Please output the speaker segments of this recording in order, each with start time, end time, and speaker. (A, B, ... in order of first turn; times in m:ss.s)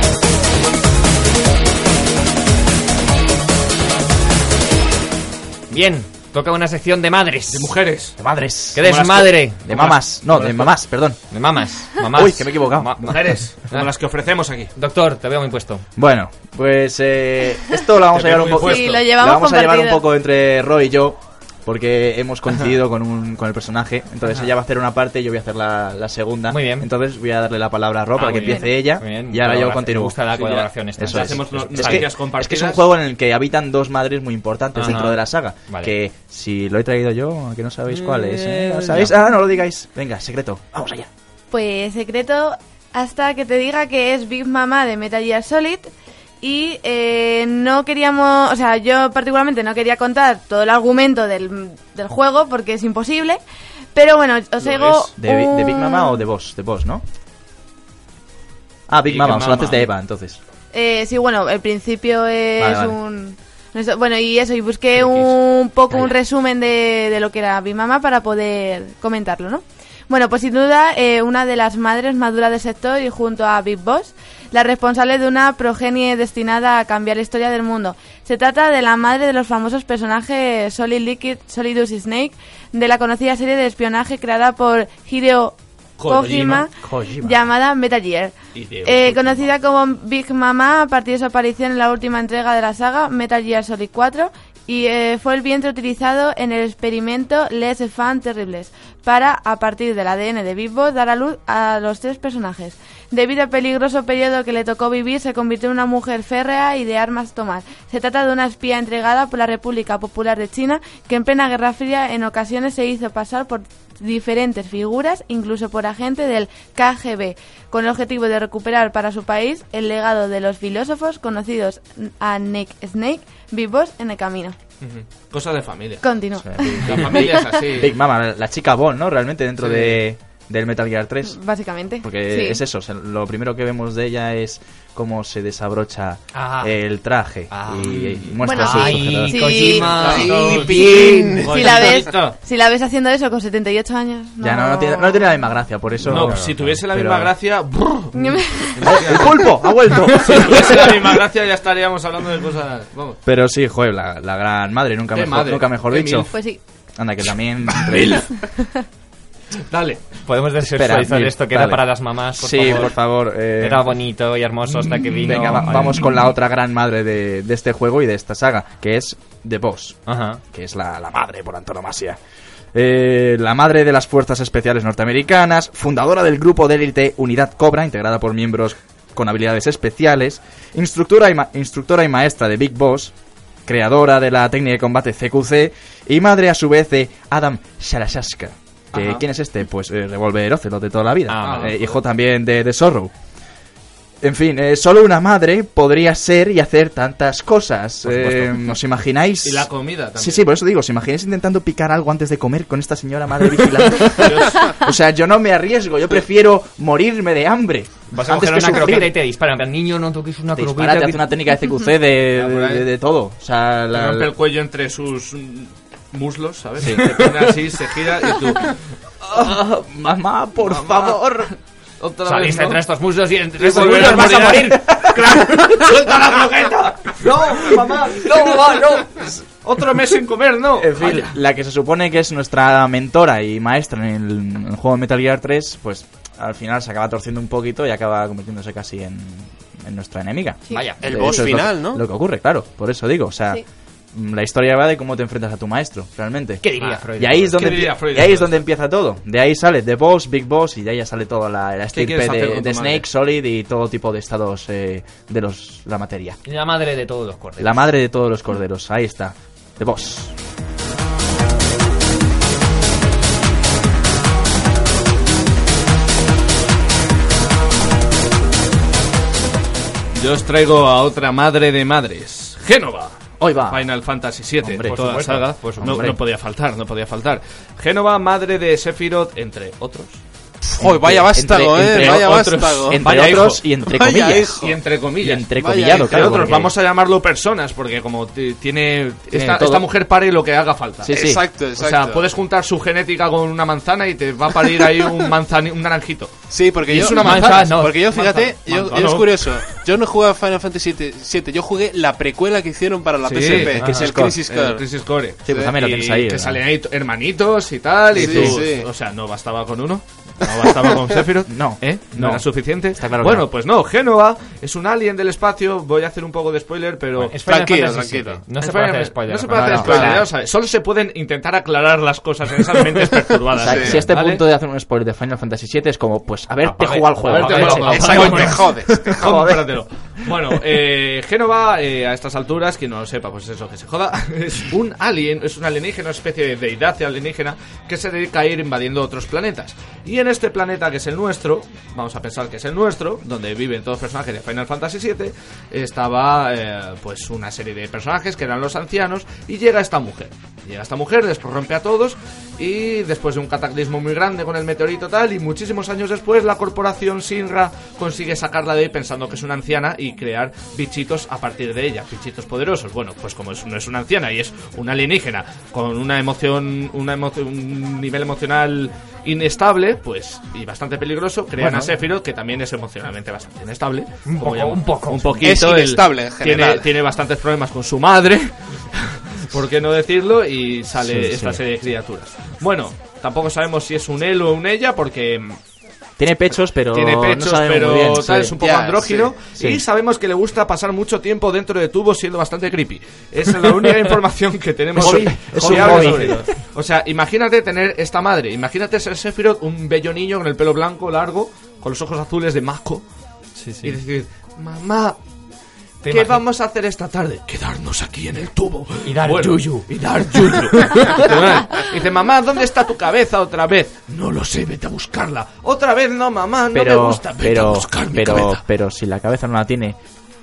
0:05.7-0:07.7 A
0:07.5-0:08.2 B
0:08.2-0:08.8 C
0:08.7-0:10.6 A
0:08.8-0:10.7 B
0:09.6-0:11.2 C
0:11.3-0:13.9 A
0:12.0-0:12.9 C
0:13.0-0:14.7 B
0:14.7-0:15.8 A
0:16.0-0:30.2 C
0:18.1-0:19.0 B
0:18.6-0:20.0 D
0:26.5-0:26.9 A
0:28.2-0:32.1 A
0:28.4-0:28.7 D
0:30.3-0:32.8 B
0:31.0-0:41.1 C
0:34.7-0:35.9 A
0:37.9-0:39.2 A
0:41.5-0:45.9 D
0:46.4-0:53.4 D
0:53.9-0:56.2 D
0:54.6-0:55.1 B
0:55.2-0:57.0 C
0:58.9-1:00.4 C
0:59.1-0:59.7 B
0:59.3-0:59.6 A
1:00.7-1:28.3 D
1:02.6-1:03.0 C
1:05.0-1:05.3 B
1:26.0-1:26.7 B
1:26.8-1:27.4 C
1:28.5-1:29.5 B
1:28.8-2:04.6 D
2:04.8-2:06.0 B
2:06.0-2:07.4 D
2:06.4-2:11.4 C
2:06.8-2:08.0 B
2:09.6-2:10.0 B
2:11.2-2:12.6 D
2:12.0-2:19.7 C
2:16.3-2:16.7 A
2:17.5-2:21.2 A
2:17.9-2:18.2 B
2:18.4-2:25.4 D
2:19.5-2:21.9 E
2:20.0-2:22.4 B
2:24.4-2:27.3 C
2:26.0-2:29.5 B
2:26.0-2:26.8 A
2:28.1-2:29.0 D
2:28.8-2:31.1 C
2:30.1-2:33.2 B
2:33.2-2:36.3 C
2:35.1-2:36.3 B
2:36.3-2:36.6 D
2:36.9-2:38.3 C
2:37.7-2:38.5 B
2:39.5-2:40.1 B
2:40.2-2:42.9 A
2:40.6-2:44.0 C
2:43.6-2:46.0 A
2:44.8-2:50.0 C
2:45.1-2:45.9 B
2:50.1-2:50.4 A
2:50.5-2:52.2 C
2:52.7-3:03.1 C
3:03.6-3:13.1 C
3:08.9-3:09.2 B
3:11.3-3:11.8 A
3:11.4-3:11.9 B
3:14.2-3:29.1 C
3:18.0-3:18.5 B
3:19.4-3:20.4 B
3:24.2-3:24.8 B
3:28.1-3:31.3 A
3:30.5-3:34.3 C
3:32.3-3:32.9 B
3:33.9-3:38.8 B
3:36.8-3:37.1 C
3:37.0-3:37.3 A
3:39.3-3:41.5 C
3:40.6-3:42.8 B
3:42.2-3:45.0 A
3:43.6-3:48.9 B
3:44.6-3:45.1 C
3:48.2-3:49.1 A
3:49.6-3:51.3 B
3:50.8-4:16.4 C
4:00.7-4:01.4 D
4:00.7-4:01.0 A
4:01.0-4:02.0 E
4:06.6-4:07.6 A
4:07.5-4:08.6 B
4:11.9-4:13.0 B
4:16.4-4:17.8 A
4:17.6-4:20.4 C
4:30.1-4:40.2 B
4:33.4-4:33.9 C
4:34.6-4:35.0 C
4:34.8-4:36.1 A
4:35.8-4:36.2 C
4:40.7-4:43.0 E
4:40.8-4:44.6 C
4:41.8-4:43.6 B
4:43.9-4:44.8 E
4:44.6-4:51.1 B
4:45.2-4:46.7 C
4:45.5-4:46.6 E
4:49.3-4:49.9 C
4:51.0-4:51.4 C
4:51.1-4:52.2 E
4:51.7-4:59.7 B
4:56.5-5:04.8 E
4:57.1-4:58.5 A
5:03.2-5:17.3 B
5:03.8-5:04.0 A
5:03.8-5:04.4 C
5:05.4-5:06.6 C
5:08.1-5:08.9 E
5:08.2-5:08.6 C
5:11.5-5:13.5 C
5:17.2-5:20.2 A
5:17.4-5:18.4 E
5:18.6-5:24.4 B
5:19.5-5:20.2 C
5:19.8-5:20.2 E
5:23.6-5:24.0 E
5:23.6-5:29.6 C
5:26.6-5:28.6 A
5:27.2-6:25.6 B
5:27.6-5:29.5 E
6:11.6-6:11.9 C
6:14.2-6:15.5 A
6:15.4-6:16.9 E
6:21.0-6:21.6 C
6:26.2-6:28.5 C
6:26.9-6:43.0 B
6:28.6-6:29.3 E
6:29.6-6:29.8 C
6:34.9-6:36.5 C
6:35.0-6:36.5 A
6:43.6-6:44.0 A
6:43.8-6:45.2 B
6:46.0-6:46.4 A
6:46.1-6:58.6 B
6:49.0-6:51.2 A
6:56.7-7:00.0 C